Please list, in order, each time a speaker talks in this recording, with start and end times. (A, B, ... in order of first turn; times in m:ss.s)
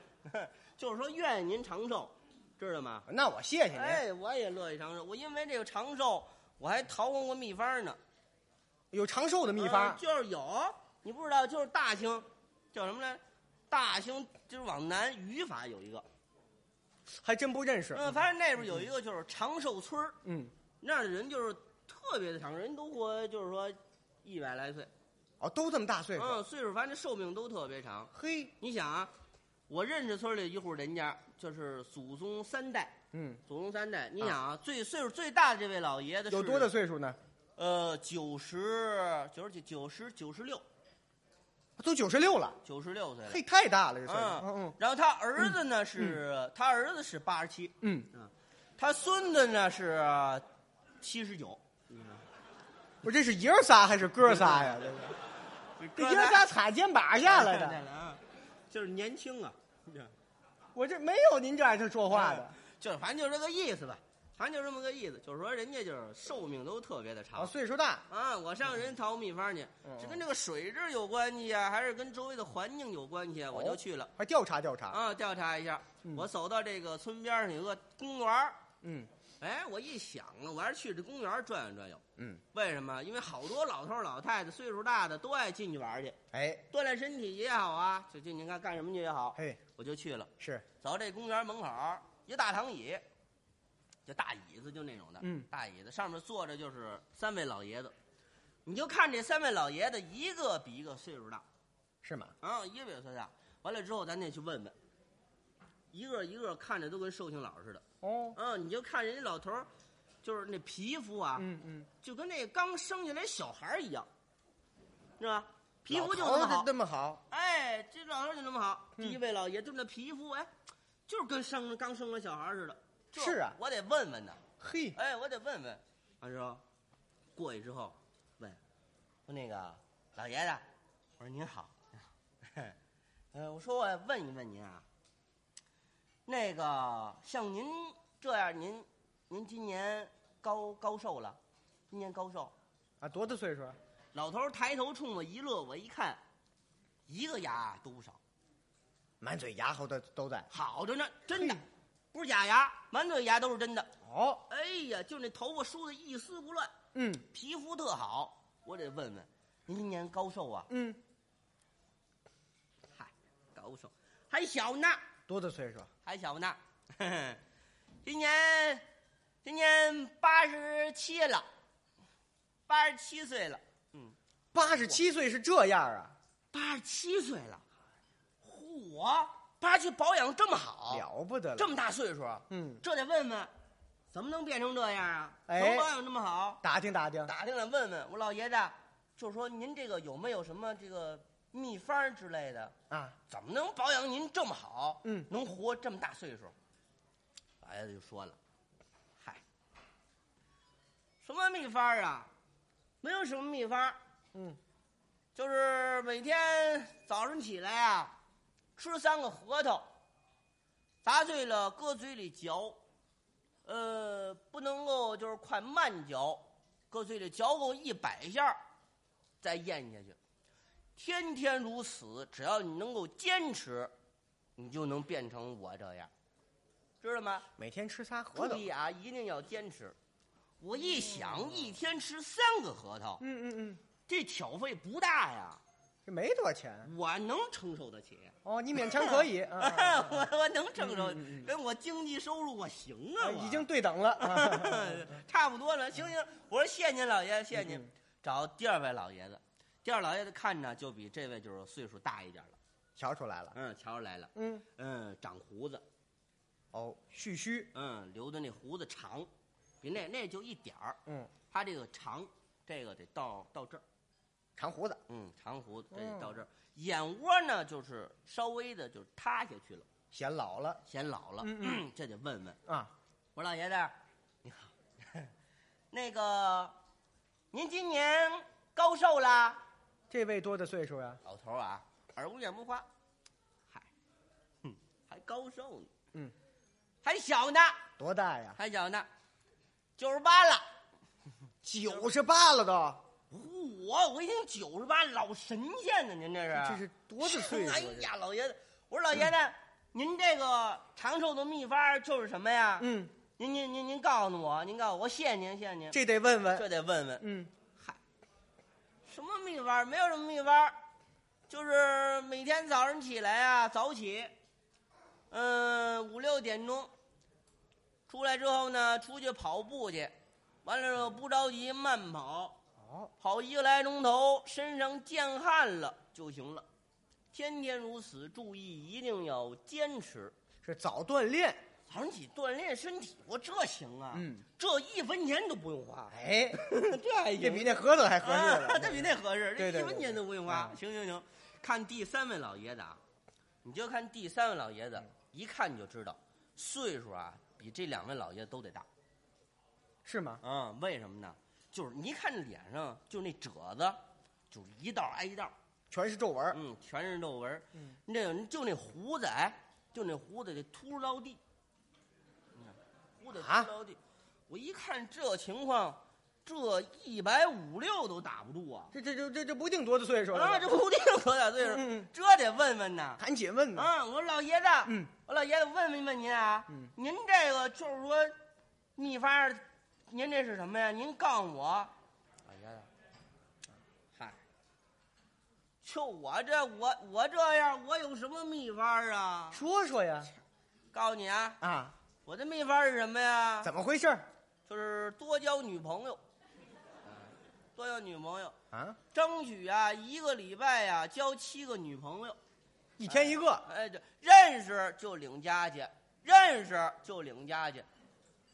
0:00.2-0:03.1 A
0:03.1-0:04.0 B
0:03.7-0:08.0 A
0:08.9-0:10.0 B
0:09.6-0:16.0 A
0:17.1-0:18.2 B
0:17.9-0:20.2 A
0:20.2-0:20.5 B
0:20.8-0:24.9 A
0:25.4-0:26.4 B
0:26.2-0:29.1 A
0:28.1-0:28.5 B
0:29.7-0:33.0 A
0:33.1-0:33.4 B
0:33.5-0:36.7 A
0:36.3-0:37.2 B
0:37.6-0:40.6 A
0:41.8-0:42.6 B
0:42.6-0:43.4 A
0:43.3-0:44.8 B
0:44.1-0:50.4 A
0:47.8-0:48.1 B
0:51.0-0:52.2 A
0:53.0-0:55.2 B
0:54.3-0:54.9 A
0:55.8-0:56.5 A
0:56.0-0:57.8 B
0:57.3-1:00.1 A
1:00.8-1:02.6 B
1:02.1-1:07.5 A
1:07.4-1:08.0 B
1:08.1-1:14.1 A
1:09.8-1:10.2 B
1:13.5-1:15.0 B
1:14.9-1:18.6 A
1:18.8-1:19.1 B
1:19.4-1:26.2 A
1:26.3-1:26.6 B
1:26.7-1:33.0 A
1:30.4-1:30.6 B
1:34.1-1:37.9 A
1:35.2-1:35.5 B
1:38.6-1:41.4 A
1:42.0-1:42.3 B
1:42.4-1:44.8 A
1:45.9-1:47.8 A
1:48.0-1:48.4 B
1:48.4-1:49.7 A
1:50.2-1:51.5 A
1:51.4-1:51.9 B
1:52.0-1:54.1 A
1:55.2-1:56.7 A
1:55.9-1:57.2 B
1:57.3-2:00.5 A
2:01.1-2:04.4 A
2:03.2-2:03.6 B
2:04.6-2:05.0 B
2:05.0-2:06.6 A
2:07.4-2:08.6 A
2:09.3-2:10.6 A
2:11.2-2:12.8 A
2:13.3-2:14.8 A
2:16.3-2:21.4 A
2:21.9-2:22.5 A
2:23.0-2:23.8 B
2:24.1-2:26.2 A
2:27.1-2:28.2 A
2:29.2-2:30.5 B
2:30.5-2:33.9 A
2:31.4-2:31.6 B
2:34.0-2:34.4 B
2:34.5-2:36.7 A
2:37.0-2:37.2 B
2:37.3-2:40.7 A
2:40.7-2:41.0 B
2:43.0-2:45.0 A
2:45.3-2:45.9 B
2:46.0-2:47.4 A
2:48.0-2:48.8 A
2:49.4-2:51.5 A
2:52.7-2:54.2 A
2:54.5-2:56.2 B
2:56.5-2:57.6 A
2:58.4-3:03.5 A
3:00.9-3:01.7 B
3:02.5-3:02.8 B
3:04.1-3:06.6 A
3:05.5-3:05.9 B
3:06.6-3:07.3 B
3:07.2-3:12.8 A
3:12.9-3:13.2 B
3:13.3-3:16.5 A
3:17.6-3:18.4 A
3:21.2-3:22.3 A
3:23.0-3:24.0 A
3:25.4-3:28.2 A
3:28.8-3:29.9 A
3:31.0-3:32.8 A
3:33.6-3:38.6 A
3:39.4-3:40.2 A
3:41.0-3:43.9 A
3:44.6-3:46.1 A
3:47.0-3:47.5 A
3:47.6-3:48.7 B
3:48.3-3:50.0 A
3:50.6-3:53.2 A
3:53.2-3:53.8 B
3:54.1-3:55.6 A
3:56.1-3:56.9 B
3:56.8-4:03.7 A
3:58.4-4:00.3 B
4:00.8-4:01.5 B
4:03.2-4:05.1 B
4:04.2-4:12.6 A
4:07.6-4:07.8 B
4:13.0-4:13.6 B
4:13.6-4:15.8 A
4:14.4-4:14.6 B
4:16.7-4:17.7 B
4:17.7-4:19.3 A
4:19.8-4:21.0 A
4:21.1-4:21.3 B
4:21.5-4:23.8 A
4:24.6-4:25.0 B
4:25.1-4:29.9 A
4:25.9-4:26.3 B
4:30.1-4:30.8 B
4:30.9-4:32.6 A
4:31.4-4:31.8 B
4:32.7-4:32.9 B
4:33.4-4:35.3 A
4:35.9-4:36.8 A
4:37.5-4:39.6 A
4:40.1-4:41.2 B
4:41.2-4:42.9 A
4:44.6-4:45.9 A
4:47.0-4:47.8 A
4:48.0-4:48.6 B
4:48.6-4:49.1 A
4:50.0-4:50.7 A
4:51.6-4:53.0 B
4:53.3-5:06.0 A
4:56.5-4:58.1 B
5:02.8-5:03.1 B
5:05.9-5:06.7 B
5:06.6-5:07.3 A
5:07.2-5:07.5 B
5:09.1-5:10.8 A
5:11.5-5:14.4 A
5:15.3-5:16.9 A
5:18.1-5:22.6 A
5:22.8-5:23.1 B
5:23.2-5:26.7 A
5:27.3-5:30.4 A
5:30.6-5:31.6 B
5:31.9-5:43.0 A
5:34.1-5:34.4 B
5:36.1-5:36.6 B
5:37.4-5:40.8 B
5:43.6-5:48.9 A
5:50.0-5:50.4 B
5:50.4-5:54.0 A
5:54.5-5:55.5 A
5:55.9-5:56.6 B
5:56.5-6:01.4 A
6:02.6-6:08.9 A
6:03.4-6:03.7 B
6:08.9-6:10.7 B
6:10.3-6:13.2 A
6:11.6-6:12.1 B
6:13.2-6:13.9 B
6:13.7-6:18.4 A
6:19.0-6:21.9 A
6:22.4-6:22.9 A
6:24.2-6:24.4 A
6:25.8-6:29.6 A
6:29.5-6:30.3 B
6:30.9-6:31.6 A
6:31.6-6:32.0 B
6:32.3-6:33.7 A
6:33.6-6:34.3 B
6:34.7-6:36.2 A
6:37.1-6:38.6 A
6:38.7-6:39.0 B
6:39.1-6:42.4 A
6:43.0-6:43.7 B
6:43.1-6:47.9 A